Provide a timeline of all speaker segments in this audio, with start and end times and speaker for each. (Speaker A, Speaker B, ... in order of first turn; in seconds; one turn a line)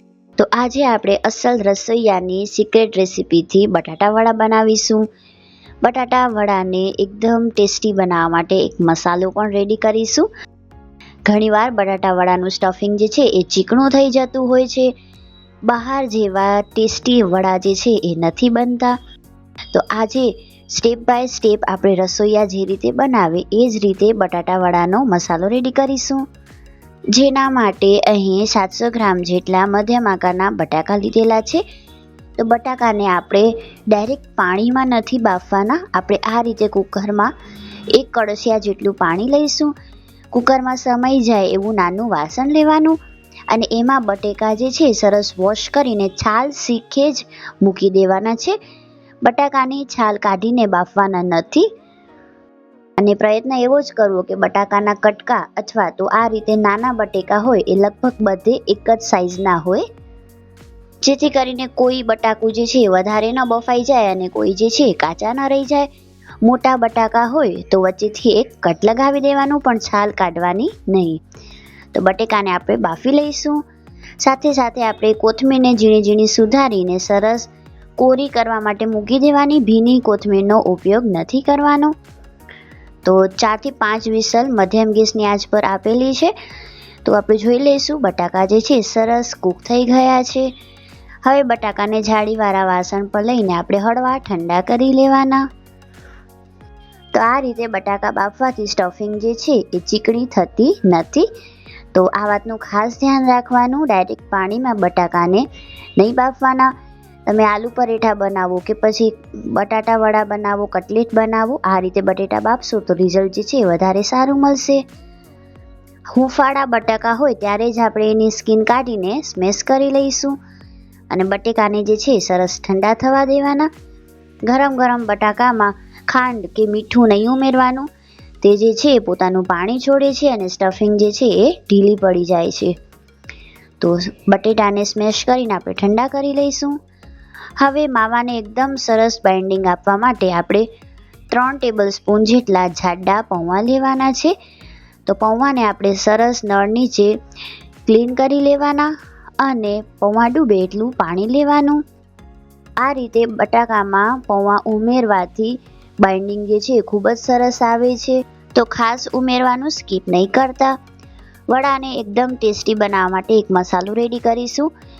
Speaker A: 0.4-5.0
Speaker A: 5.8-10.3
Speaker A: 11.3-14.9
Speaker A: 15.7-18.9
Speaker A: 19.7-26.2
Speaker A: 27.1-31.6
Speaker A: 32.4-37.3
Speaker A: 38.0-39.7
Speaker A: 40.3-43.0
Speaker A: 43.5-48.5
Speaker A: 49.2-51.6
Speaker A: 53.0-59.8
Speaker A: 61.0-65.9
Speaker A: 66.4-71.2
Speaker A: 71.9-73.6
Speaker A: 74.2-81.9
Speaker A: 83.0-86.3
Speaker A: 87.0-90.5
Speaker A: 91.2-95.4
Speaker A: 97.1-101.3
Speaker A: 101.9-105.4
Speaker A: 106.0-106.7
Speaker A: 107.3-114.8
Speaker A: 116.2-120.3
Speaker A: 121.1-123.7
Speaker A: 124.5-127.9
Speaker A: 128.4-132.7
Speaker A: 133.8-136.7
Speaker A: 137.6-140.6
Speaker A: 141.3-144.3
Speaker A: 145.1-147.1
Speaker A: 147.9-148.9
Speaker A: 149.4-151.8
Speaker A: 152.8-160.7
Speaker A: 161.5-164.7